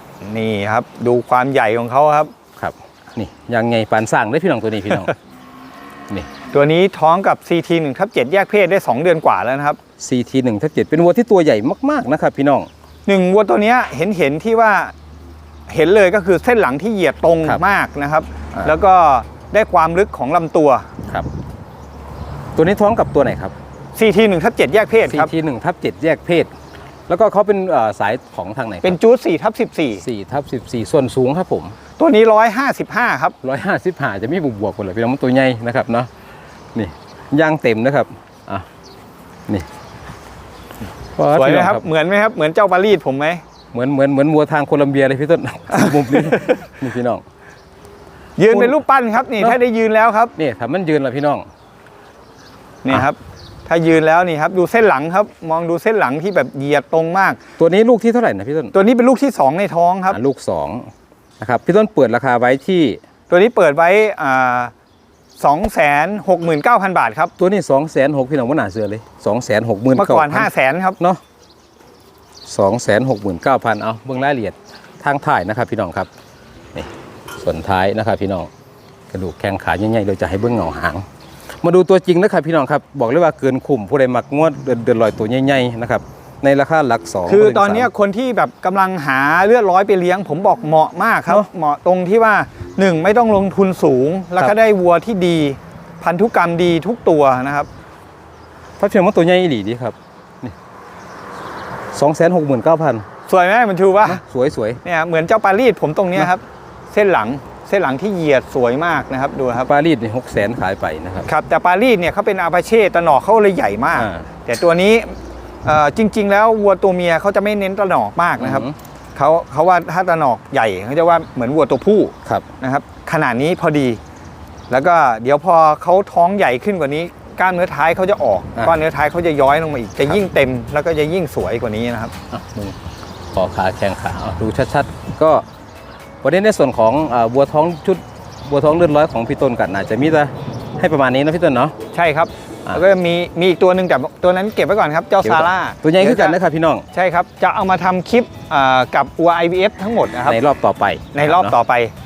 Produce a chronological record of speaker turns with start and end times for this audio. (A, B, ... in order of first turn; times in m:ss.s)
0:00.2-0:02.3 A
0:02.6-0:05.1 B
0:06.5-0:09.8 A
0:10.0-0:12.7 B
0:13.0-0:14.9 A
0:15.7-0:20.8 A
0:22.6-0:23.5 B
0:23.9-0:25.3 A
0:25.1-0:26.5 B
0:27.1-0:29.0 B
0:28.8-0:30.0 A
0:30.0-0:31.8 B
0:32.0-0:33.4 A
0:33.4-0:36.1 B
0:36.7-0:38.6 B
0:41.2-0:41.8 B
0:41.3-0:43.4 A
0:43.7-0:47.2 B
0:45.8-0:46.6 A
0:48.4-0:50.3 A
0:48.5-0:48.8 B
0:50.4-0:51.4 B
0:52.8-0:57.4 A
0:57.6-0:58.7 B
0:58.7-1:00.2 A
1:00.1-1:03.0 B
1:03.3-1:04.7 A
1:05.4-1:07.3 A
1:07.4-1:11.2 B
1:10.0-1:11.0 A
1:12.4-1:16.1 B
1:16.7-1:18.5 B
1:19.1-1:21.0 B
1:21.6-1:27.9 B
1:27.2-1:37.7 A
1:38.8-1:40.5 B
1:41.9-1:43.0 B
1:43.3-1:44.2 A
1:44.0-1:44.8 B
1:44.8-1:49.7 A
1:49.6-1:51.3 B
1:51.2-2:04.0 A
1:54.0-1:54.3 B
1:58.4-1:58.7 B
2:04.7-2:12.1 A
2:12.3-2:12.8 B
2:13.3-2:15.4 B
2:16.2-2:21.7 B
2:21.9-2:26.4 A
2:25.2-2:26.8 B
2:26.9-2:30.4 A
2:30.2-2:31.5 B
2:31.1-2:31.9 A